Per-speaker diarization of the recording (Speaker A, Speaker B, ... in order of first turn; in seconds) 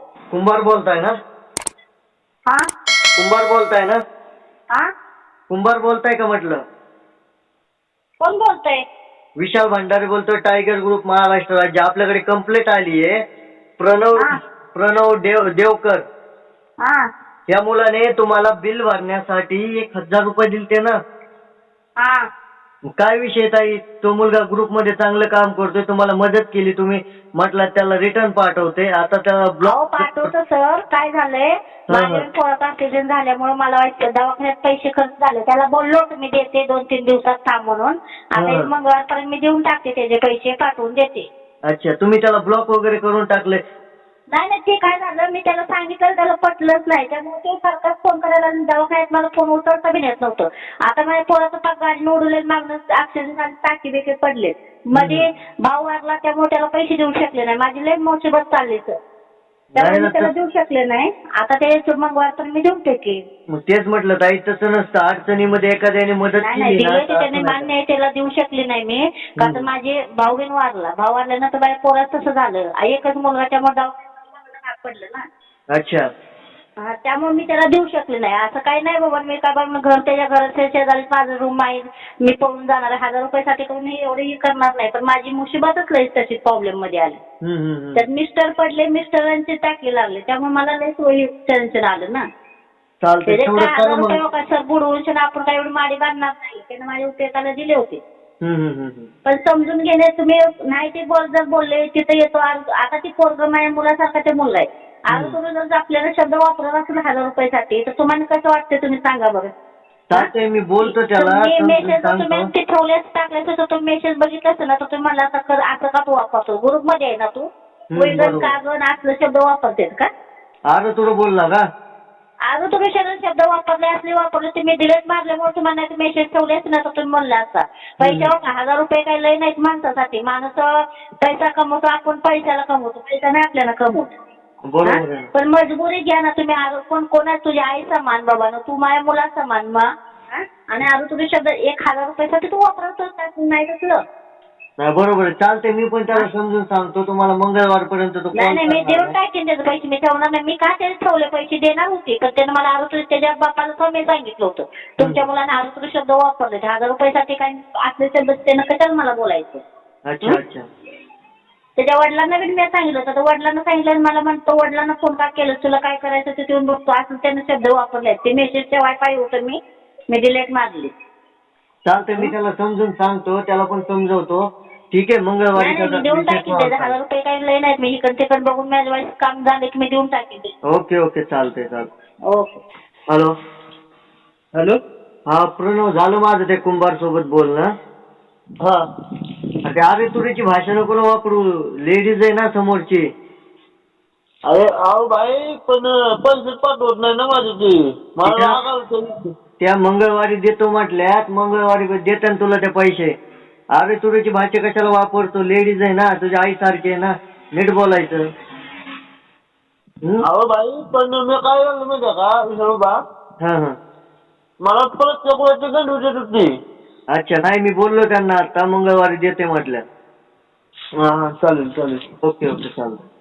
Speaker A: 0.3-1.1, 3.2-4.0, 5.5-6.6, 9.4-13.2, 13.8-16.0, 17.5-20.9, 23.0-30.3, 31.9-32.2, 38.4-38.7, 41.7-43.6, 54.9-55.2, 59.7-60.3, 63.5-67.7, 69.4-69.7, 75.7-76.0, 87.4-88.0, 93.0-94.2, 98.4-99.1, 110.1-112.5, 117.9-118.5, 120.7-121.6, 128.0-128.3, 134.7-135.3, 144.8-149.1, 155.0-155.2, 160.1-160.6, 171.8-176.9, 180.7-181.9, 185.3-187.7, 189.6-193.0, 198.2-198.6, 199.6-203.1, 203.8-208.2, 213.4-213.7, 217.1-219.8, 222.2-223.0
Speaker B: 8.2-8.8, 22.0-22.2, 29.6-41.3, 44.3-59.0, 59.8-63.2, 66.4-75.2, 76.8-87.2, 88.0-92.2, 93.2-98.0, 99.2-109.5, 110.8-120.1, 122.5-130.7, 131.2-134.1, 134.8-144.0, 148.3-159.6, 161.8-169.6, 170.1-170.9, 175.6-180.5, 182.3-182.6
Speaker C: 194.5-199.3, 210.2-212.9, 214.6-216.5, 221.0-222.0